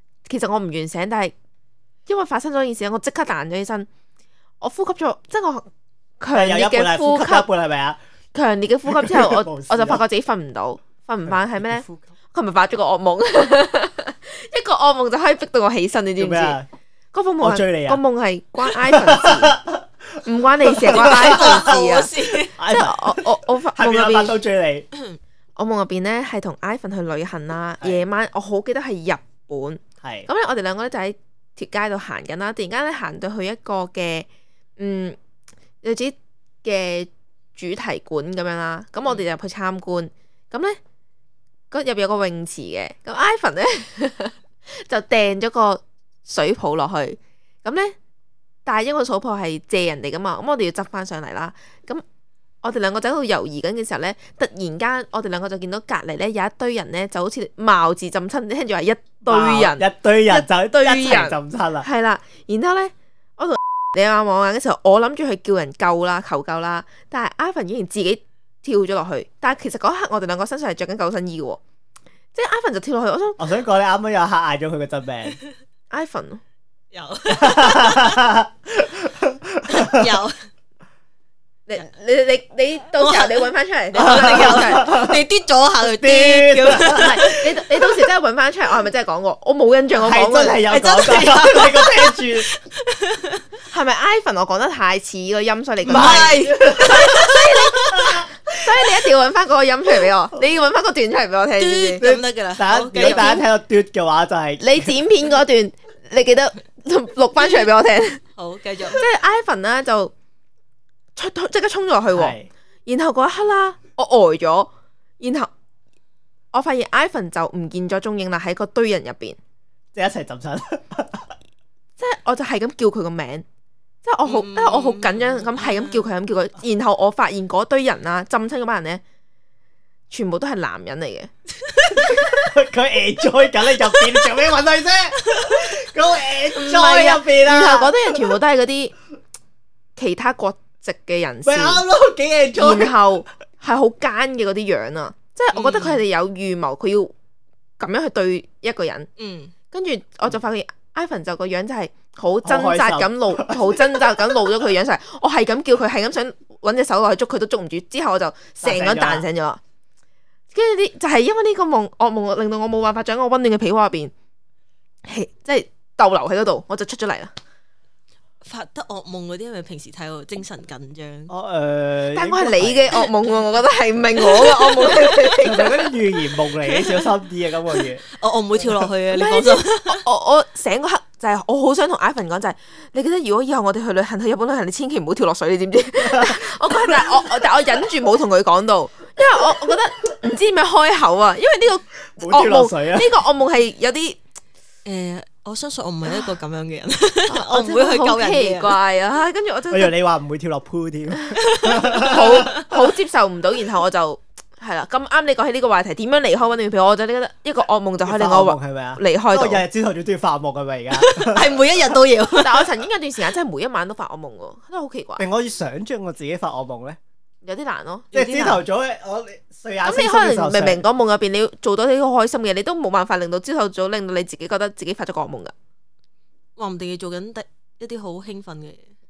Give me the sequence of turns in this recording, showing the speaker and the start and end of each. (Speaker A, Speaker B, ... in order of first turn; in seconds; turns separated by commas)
Speaker A: 0.2-1.3, Speaker A: 2.1-3.9, Speaker A: 4.6-5.7, Speaker A: 6.2-7.5, Speaker B: 6.3-8.0, Speaker A: 8.3-16.6, Speaker B: 8.9-10.0, Speaker B: 11.3-12.0, Speaker B: 16.2-16.7, Speaker A: 17.1-19.6, Speaker B: 17.4-18.0, Speaker B: 18.6-19.8, Speaker A: 20.2-22.1, Speaker B: 20.6-21.8, Speaker C: 20.9-22.5, Speaker B: 22.6-24.9, Speaker A: 22.6-24.4, Speaker A: 25.6-34.3, Speaker B: 30.0-30.3, Speaker A: 34.8-35.2, Speaker A: 35.8-40.8, Speaker A: 41.7-47.9, Speaker A: 48.6-52.0, Speaker A: 52.6-71.6, Speaker B: 59.2-61.9, Speaker A: 72.3-73.4, Speaker B: 73.4-75.4, Speaker A: 75.9-76.4, Speaker C: 76.9-78.3, Speaker B: 77.3-80.1, Speaker C: 79.7-80.4, Speaker A: 81.7-84.9, Speaker C: 83.0-87.2, Speaker B: 84.0-85.2, Speaker B: 85.8-87.4, Speaker A: 86.8-90.8, Speaker B: 90.0-92.5, Speaker C: 90.7-93.4, Speaker A: 93.7-102.0, Speaker C: 95.8-97.9, Speaker B: 95.9-97.0, Speaker B: 97.8-98.3, Speaker C: 101.6-103.4, Speaker B: 102.0-104.9, Speaker A: 103.0-103.5, Speaker A: 104.6-108.2, Speaker C: 108.3-109.0, Speaker A: 108.8-110.1, Speaker A: 111.2-115.5, Speaker B: 112.1-112.5, Speaker A: 116.5-119.4, Speaker B: 119.9-121.3, Speaker A: 122.0-123.4, Speaker A: 124.0-129.0, Speaker C: 124.2-126.0, Speaker A: 130.1-131.3, Speaker C: 131.7-132.2, Speaker B: 131.9-138.3, Speaker C: 134.0-134.2, Speaker C: 135.2-135.7, Speaker A: 136.5-138.9, Speaker A: 139.9-141.8, Speaker B: 141.4-142.9, Speaker A: 142.5-147.1, Speaker C: 145.5-146.0, Speaker A: 147.8-149.1, Speaker C: 149.2-149.5, Speaker A: 149.7-159.6, Speaker B: 152.4-154.6, Speaker B: 158.6-159.2, Speaker A: 160.5-164.1, Speaker A: 165.0-167.3, Speaker C: 168.4-171.3, Speaker B: 171.3-173.0, Speaker A: 172.1-175.7, Speaker C: 174.2-175.1, Speaker B: 175.4-178.0, Speaker C: 176.6-177.1, Speaker C: 177.9-180.0, Speaker A: 179.1-194.2, Speaker B: 186.0-187.2, Speaker B: 192.2-193.1, Speaker C: 194.8-198.8, Speaker A: 197.3-199.9, Speaker B: 199.7-202.6, Speaker C: 201.3-202.7, Speaker A: 201.8-209.6, Speaker B: 208.0-211.5, Speaker C: 210.9-212.7, Speaker A: 212.4-215.2, Speaker B: 215.2-217.0, Speaker A: 217.4-218.1, Speaker C: 218.1-218.6, Speaker B: 218.1-220.8, Speaker A: 219.8-225.5, Speaker C: 226.6-228.9